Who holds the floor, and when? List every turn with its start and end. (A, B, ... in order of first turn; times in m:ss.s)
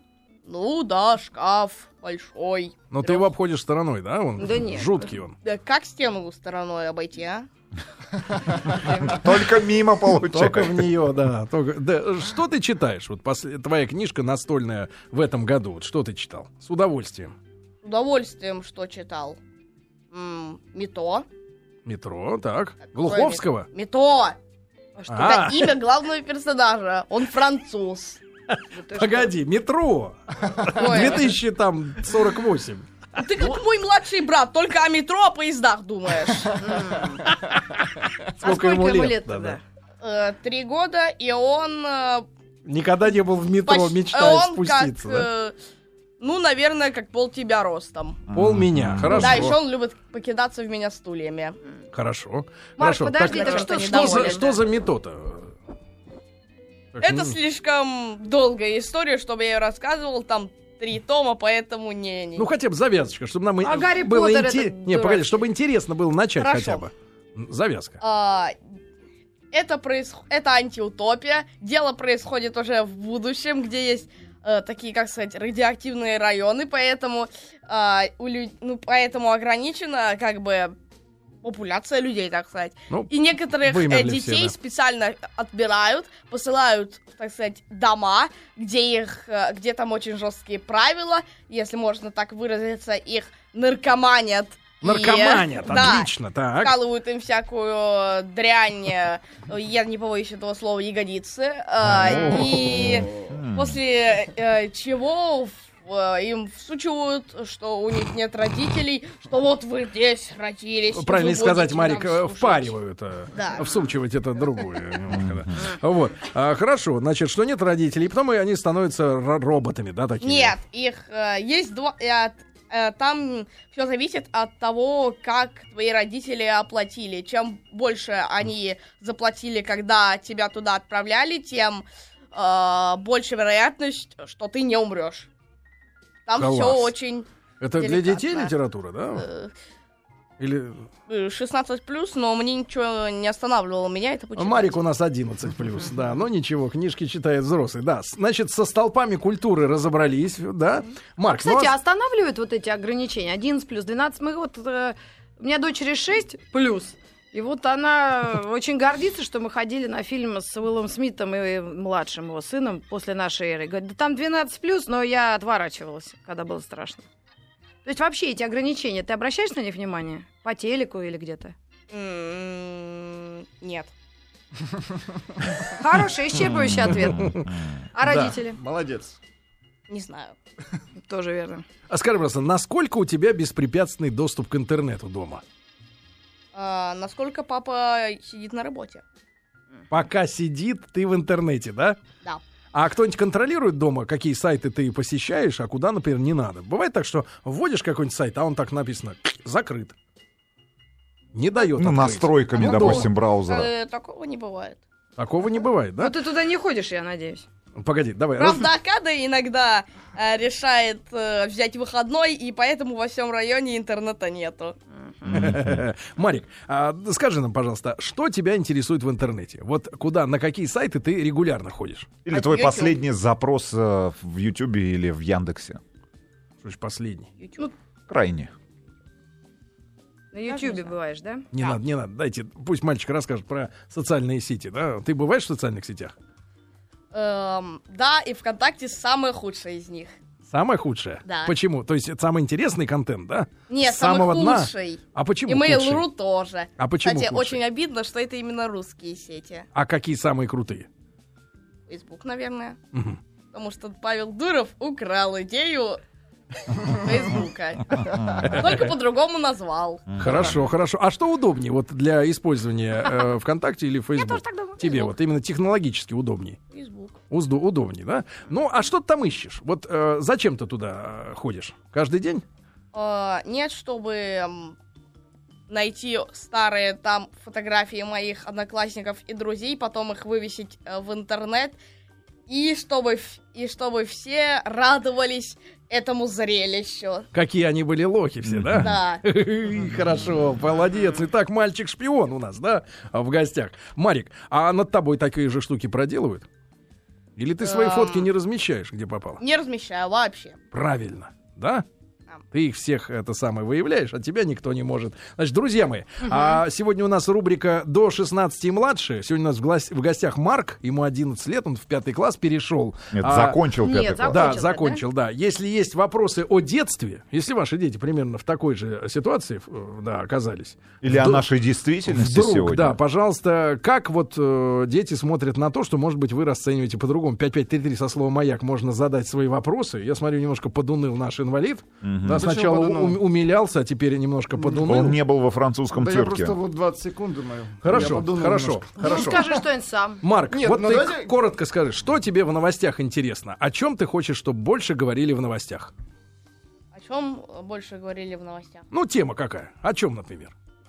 0:00.4-0:03.3 A
0:02.9-0:05.3 B
0:04.4-0:05.1 C
0:05.4-0:07.4 A
0:09.0-0:10.9 D
0:10.2-0:17.3 B
0:17.8-0:19.4 A
0:20.1-0:21.2 A
0:21.8-0:23.7 B
0:22.9-0:24.4 A
0:25.0-0:25.3 C
0:25.1-0:25.7 B
0:25.2-0:28.2 A
0:28.5-0:32.9 B
0:28.7-0:29.3 C
0:30.7-0:31.4 A
0:33.2-0:36.6 A
0:36.6-0:37.2 C
0:37.2-0:39.6 B
0:38.4-0:39.6 C
0:40.0-0:42.2 A
0:42.6-0:45.3 B
0:43.6-0:45.5 A
0:46.2-0:48.2 A
0:48.3-0:49.5 D
0:48.3-0:49.6 B
0:49.1-0:51.6 A
0:51.9-0:55.5 B
0:52.8-0:54.5 C
0:53.2-0:54.6 A
0:56.9-0:57.4 B
0:57.0-1:02.5 A
1:02.4-1:08.0 B
1:03.6-1:05.4 C
1:06.4-1:06.8 A
1:08.0-1:08.5 A
1:09.5-1:20.7 A
1:21.4-1:52.7 A
1:23.6-1:24.5 B
1:34.8-1:36.8 B
1:41.9-1:42.8 B
1:42.6-1:43.8 D
1:50.9-2:00.6 B
1:53.3-1:53.7 A
1:55.1-1:55.7 D
2:00.2-2:15.3 A
2:16.2-2:18.5 A
2:16.4-2:16.9 B
2:17.6-2:19.2 B
2:19.1-2:19.5 A
2:20.4-2:20.9 B
2:21.1-2:24.8 A
2:24.4-2:31.7 B
2:31.3-2:47.0 C
2:47.8-2:51.5 C
2:51.9-2:53.9 A
2:55.7-2:58.6 C
2:56.3-2:57.7 D
2:56.8-2:57.5 B
2:58.0-2:58.4 B
2:58.5-2:59.2 E
2:59.9-3:00.3 A
3:01.0-3:01.6 C
3:01.9-3:05.4 B
3:06.5-3:09.0 A
3:09.9-3:12.0 B
3:12.7-3:20.0 B
3:21.3-3:23.1 B
3:21.8-3:23.7 D
3:22.6-3:24.8 A
3:25.2-3:26.1 B
3:26.0-3:27.4 C
3:27.8-3:28.7 B
3:28.4-3:34.7 A
3:35.2-3:35.8 D
3:35.3-3:42.1 B
3:42.2-3:45.8 D
3:42.3-3:43.0 A
3:46.6-3:47.3 B
3:47.4-3:47.7 A
3:48.1-3:48.5 D
3:50.3-3:51.4 C
3:50.5-3:50.9 A
3:51.5-3:56.1 B
3:57.1-4:00.1 A
4:00.5-4:06.0 B
4:01.2-4:01.5 A
4:03.7-4:09.7 A
4:06.8-4:07.6 B
4:09.7-4:10.9 B
4:11.9-4:12.8 A
4:12.9-4:13.2 B
4:13.5-4:16.0 A
4:16.7-4:20.1 A
4:18.0-4:18.8 D
4:18.4-4:18.9 B
4:20.1-4:20.7 D
4:20.2-4:26.6 B
4:24.2-4:25.1 C
4:26.7-4:27.2 A
4:27.3-4:32.4 B
4:32.9-4:34.7 A
4:35.7-4:41.8 A
4:42.5-4:47.3 A
4:47.3-4:56.4 B
4:48.4-4:48.9 D
4:48.8-4:49.2 A
4:57.4-4:59.4 B
4:57.6-4:58.3 A
4:59.4-5:00.6 A
5:00.7-5:01.8 B
5:02.5-5:13.6 B
5:06.3-5:06.5 C
5:13.1-5:14.5 D
5:13.8-5:15.0 C
5:14.3-5:21.4 B
5:21.0-5:23.0 D
5:22.1-5:35.2 B
5:32.0-5:32.4 D
5:32.3-5:33.2 E
5:34.6-5:34.9 E
5:34.9-5:36.6 D
5:35.9-5:39.4 E
5:37.8-5:39.4 B
5:39.0-5:40.2 C
5:40.2-5:45.9 B
5:40.5-5:41.3 E
5:46.9-5:48.8 A
5:48.9-5:50.5 B